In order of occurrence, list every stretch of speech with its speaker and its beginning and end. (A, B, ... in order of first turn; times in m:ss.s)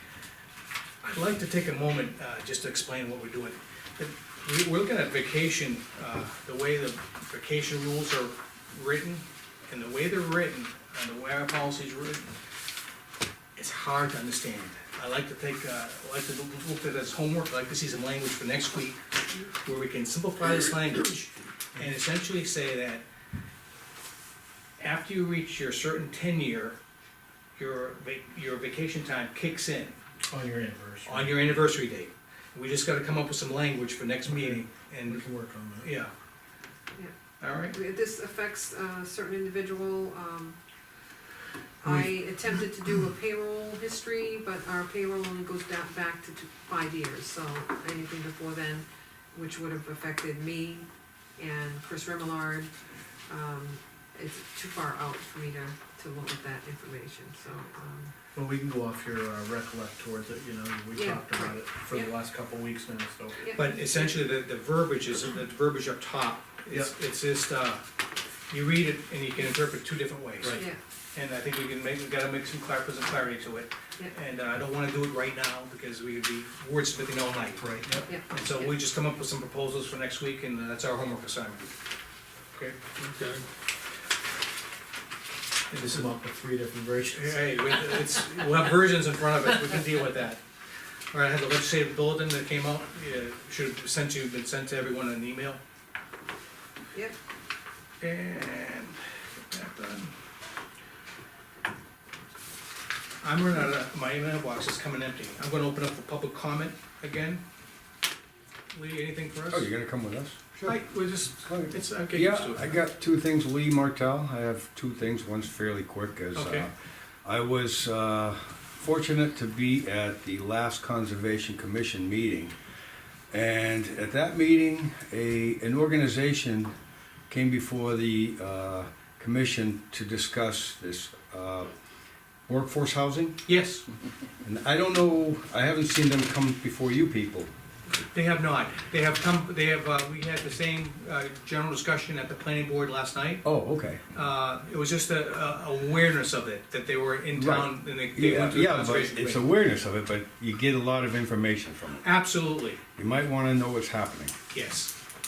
0:01.0-0:12.3 A
0:13.6-0:23.0 A
0:24.8-0:26.8 A
0:27.6-0:30.0 A
0:30.3-0:31.6 B
0:31.0-0:35.3 A
0:34.3-0:35.9 B
0:35.8-0:36.1 A
0:37.4-0:37.8 A
0:37.7-0:40.6 C
0:41.8-0:52.7 C
0:53.3-0:58.1 C
0:58.4-1:03.5 B
1:00.9-1:02.1 C
1:03.4-1:04.2 C
1:03.6-1:07.8 A
1:08.5-1:10.6 A
1:10.4-1:10.7 B
1:10.5-1:10.8 C
1:11.1-1:21.7 A
1:17.6-1:18.1 B
1:18.1-1:18.8 C
1:25.7-1:26.1 A
1:25.8-1:27.5 B
1:27.1-1:30.4 A
1:31.1-1:35.6 A
1:38.0-1:40.1 A
1:43.2-1:47.4 A
1:48.7-1:49.7 A
1:49.5-1:56.7 D
1:50.6-1:52.8 A
1:56.4-1:56.7 A
1:57.2-2:02.6 D
2:03.3-2:06.7 D
2:07.3-2:11.7 D
2:12.5-2:13.4 D
2:13.5-2:13.8 A
2:14.4-2:17.5 D
2:18.1-2:23.4 A
2:23.4-2:24.0 D
2:24.1-2:29.5 A
2:27.3-2:32.1 D
2:32.0-2:32.8 A
2:33.0-2:34.3 D
2:34.5-2:34.9 A